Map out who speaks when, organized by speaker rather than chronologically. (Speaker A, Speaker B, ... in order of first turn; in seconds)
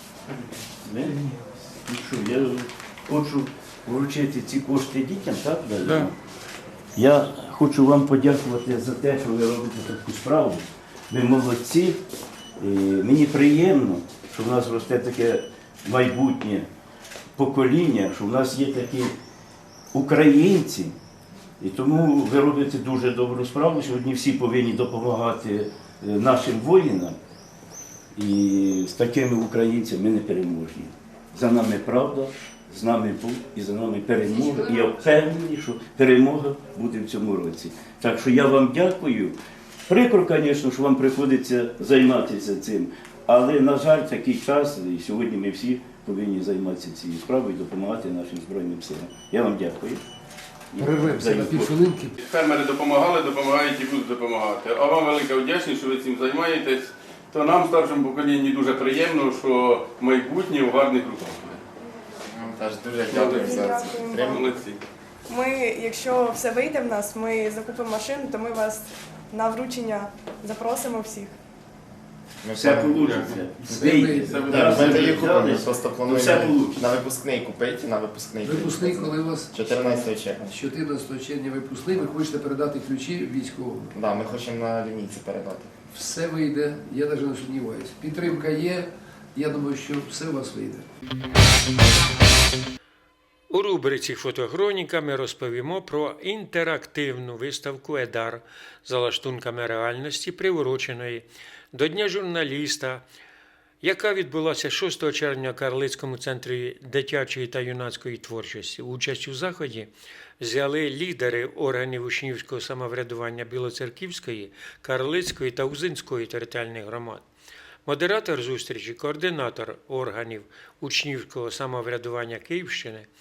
Speaker A: 0.8-1.2, 1.7-6.2, 7.0-12.0, 12.6-16.7, 17.4-19.1, 19.9-20.9, 21.6-27.2, 28.1-39.4, 39.9-50.0, 50.7-51.7, 72.5-76.8
Speaker B: 50.8-52.2, 73.7-74.4, 78.4-84.0, 85.9-90.9
Speaker C: 52.2-61.6, 63.1-64.8, 73.1-73.4, 74.3-75.3
Speaker D: 62.2-64.5, 72.4-80.4, 84.0-85.7
Speaker E: 63.4-64.6, 65.3-71.3
Speaker F: 93.5-103.0, 103.8-117.2, 117.8-123.1